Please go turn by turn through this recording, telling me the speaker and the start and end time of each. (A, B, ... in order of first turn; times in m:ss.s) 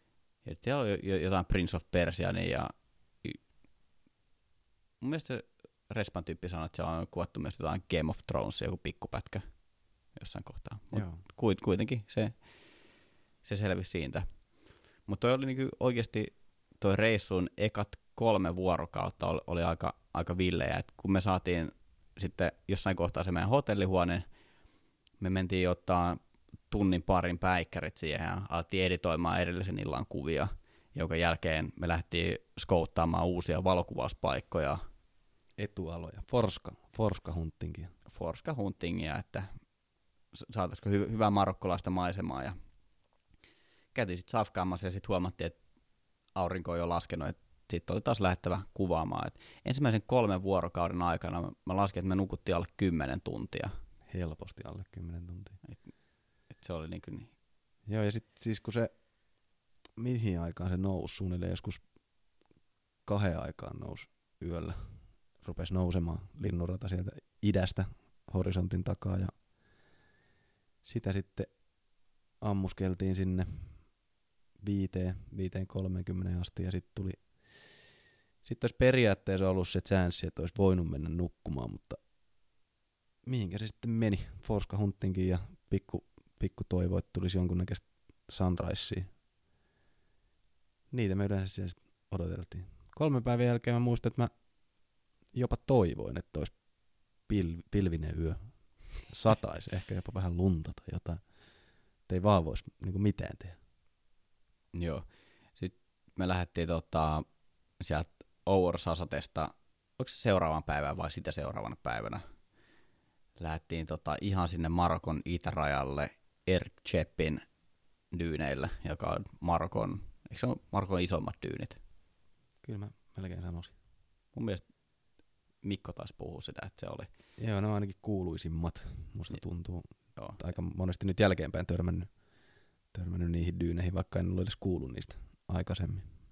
0:00.4-0:03.4 A
0:05.0-0:09.6 A
0:10.1-0:12.5 A
0:10.9-0:11.2 B
0:13.4-0:14.2 A
0:15.0-0:24.2 A
0:25.2-0:34.8 A
0:35.6-0:37.9 B
0:38.1-0:39.5 A
0:40.3-0:42.6 A
0:43.9-0:45.6 A
0:46.4-0:53.7 A
0:54.1-0:55.6 B
0:56.5-0:57.3 A
0:57.9-0:58.9 B
1:00.0-1:01.8 B
1:03.1-1:09.3 B
1:10.8-1:11.6 B
1:12.4-1:13.9 B
1:14.6-1:17.6 B
1:18.4-1:22.0 B
1:23.2-1:29.1 B
1:30.9-1:34.3 B
1:35.3-1:36.6 B
1:37.2-1:41.2 B
1:42.1-1:43.6 B
1:44.7-1:45.1 A
1:45.6-1:47.2 A
1:47.8-1:52.2 A
1:53.4-1:57.4 A
1:58.1-2:01.8 A
2:02.6-2:03.7 B
2:04.3-2:04.8 A
2:05.6-2:07.1 A
2:07.4-2:12.1 B
2:12.9-2:16.1 B